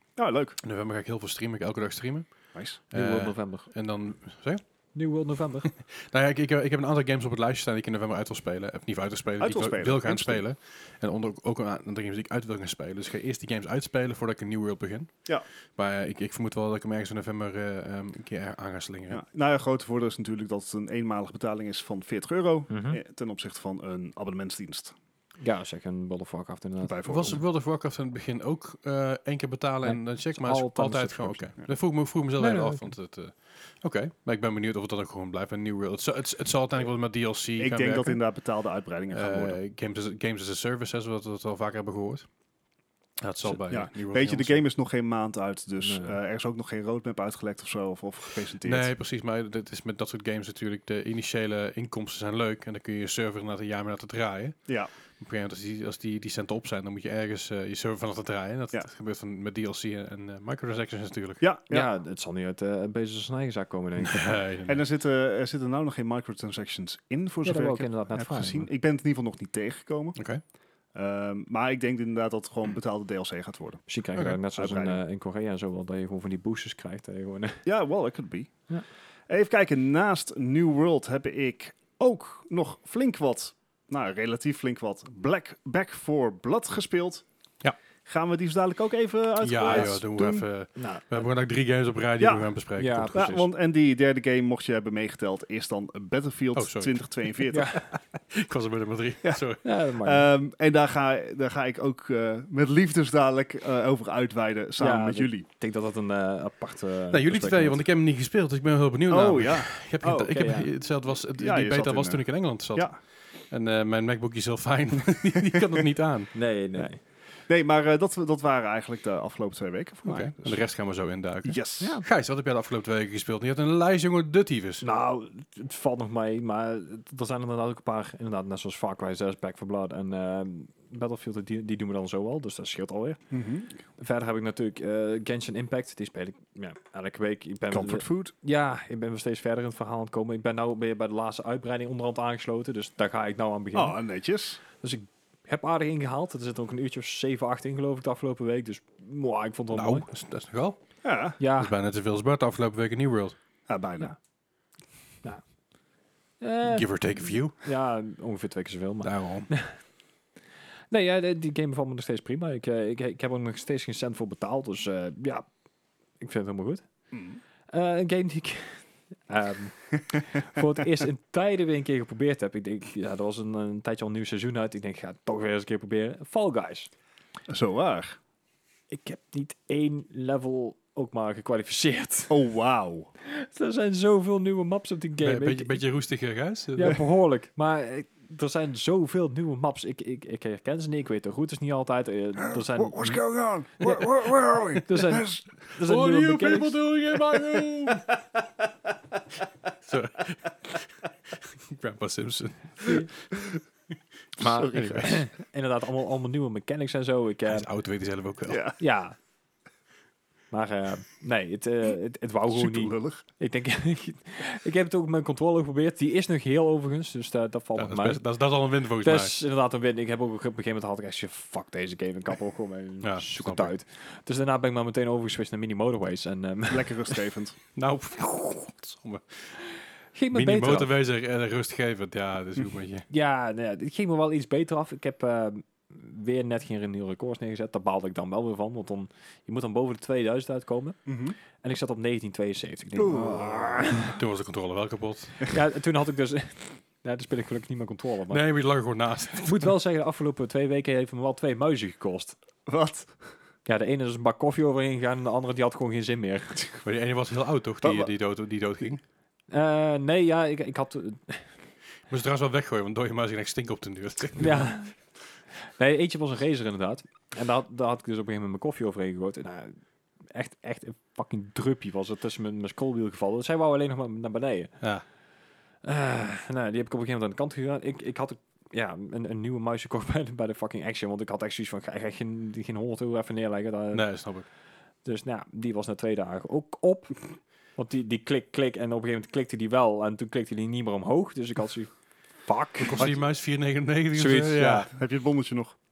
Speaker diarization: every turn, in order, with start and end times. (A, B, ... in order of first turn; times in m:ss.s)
0:00.2-0:00.6 A
0:00.6-0:02.3 B
0:02.5-0:02.8 A
0:02.9-0:04.6 B
0:02.9-0:03.7 C
0:04.9-0:05.7 C
0:05.7-0:19.2 B
0:09.4-0:10.4 A
0:19.1-0:25.0 A
0:22.7-0:23.0 C
0:25.4-0:27.0 C
0:26.8-0:27.4 A
0:27.1-0:38.2 B
0:29.8-0:31.5 C
0:32.4-0:32.9 C
0:37.6-0:39.6 A
0:39.1-0:42.3 B
0:43.2-0:44.6 B
0:43.6-0:48.9 A
0:45.8-0:46.2 C
0:48.6-0:54.7 B
0:55.2-1:01.4 B
1:01.4-1:01.9 A
1:01.7-1:04.4 C
1:04.0-1:04.8 B
1:04.7-1:10.2 A
1:07.4-1:08.7 C
1:10.2-1:10.4 B
1:10.9-1:13.8 A
1:13.9-1:17.6 C
1:14.6-1:15.0 A
1:17.6-1:18.5 A
1:19.3-1:27.2 A
1:28.0-1:30.5 A
1:29.4-1:33.4 B
1:30.8-1:31.3 C
1:32.2-1:32.5 A
1:32.8-1:33.4 C
1:33.1-1:37.7 A
1:36.6-1:37.3 B
1:37.5-1:37.9 C
1:38.3-1:39.6 B
1:39.6-1:40.3 C
1:40.0-1:45.5 A
1:44.8-1:47.8 C
1:47.1-1:56.4 B
1:49.1-1:50.3 A
1:50.1-1:50.7 C
1:51.3-1:53.0 A
1:56.3-1:57.0 C
1:57.5-2:00.6 A
2:00.0-2:04.8 B
2:01.4-2:02.0 A
2:01.8-2:02.1 C
2:04.8-2:13.2 C
2:13.3-2:13.8 A
2:14.0-2:24.0 C
2:17.7-2:18.3 A
2:23.7-2:24.6 A
2:24.8-2:30.1 C
2:29.7-2:30.8 B
2:31.0-2:31.4 A
2:31.4-2:31.7 C
2:31.5-2:33.4 B
2:33.7-2:34.2 A
2:36.4-2:39.8 C
2:36.6-2:37.6 B
2:39.0-2:39.5 B
2:40.9-2:45.5 C
2:46.2-2:46.9 C
2:47.1-2:47.4 A
2:47.7-2:56.9 C
2:57.5-2:58.2 A
2:58.9-3:02.4 C
3:02.3-3:03.1 A
3:03.2-3:05.8 C
3:05.2-3:07.0 B
3:06.8-3:16.8 C
3:12.4-3:15.5 A
3:15.8-3:18.2 B
3:19.8-3:23.5 B
3:24.4-3:25.1 A
3:24.4-3:27.7 C
3:24.4-3:25.2 B
3:27.5-3:28.7 B
3:28.5-3:28.8 A
3:28.8-3:29.2 C
3:30.5-3:38.2 C
3:32.5-3:33.2 A
3:37.8-3:39.4 B
3:39.0-3:47.2 C
3:43.0-3:43.7 B
3:46.7-3:47.6 A
3:47.8-3:49.6 B
3:50.2-3:50.9 C
3:50.3-3:53.1 B
3:53.1-4:01.0 C
4:01.1-4:01.4 A
4:01.6-4:04.1 C
4:03.0-4:04.1 A
4:03.9-4:05.5 B
4:05.5-4:08.4 C
4:08.3-4:09.7 B
4:09.4-4:12.4 C
4:12.7-4:13.2 A
4:13.6-4:16.6 C
4:16.8-4:19.0 B
4:17.8-4:18.1 A
4:19.5-4:21.5 C
4:22.1-4:24.7 B
4:24.4-4:24.9 C
4:25.8-4:34.8 C
4:35.8-4:44.1 C
4:43.9-4:44.5 B
4:45.0-4:51.9 C
4:52.4-4:53.2 C
4:52.8-4:54.9 B
4:54.1-4:54.9 C
4:54.9-4:55.8 A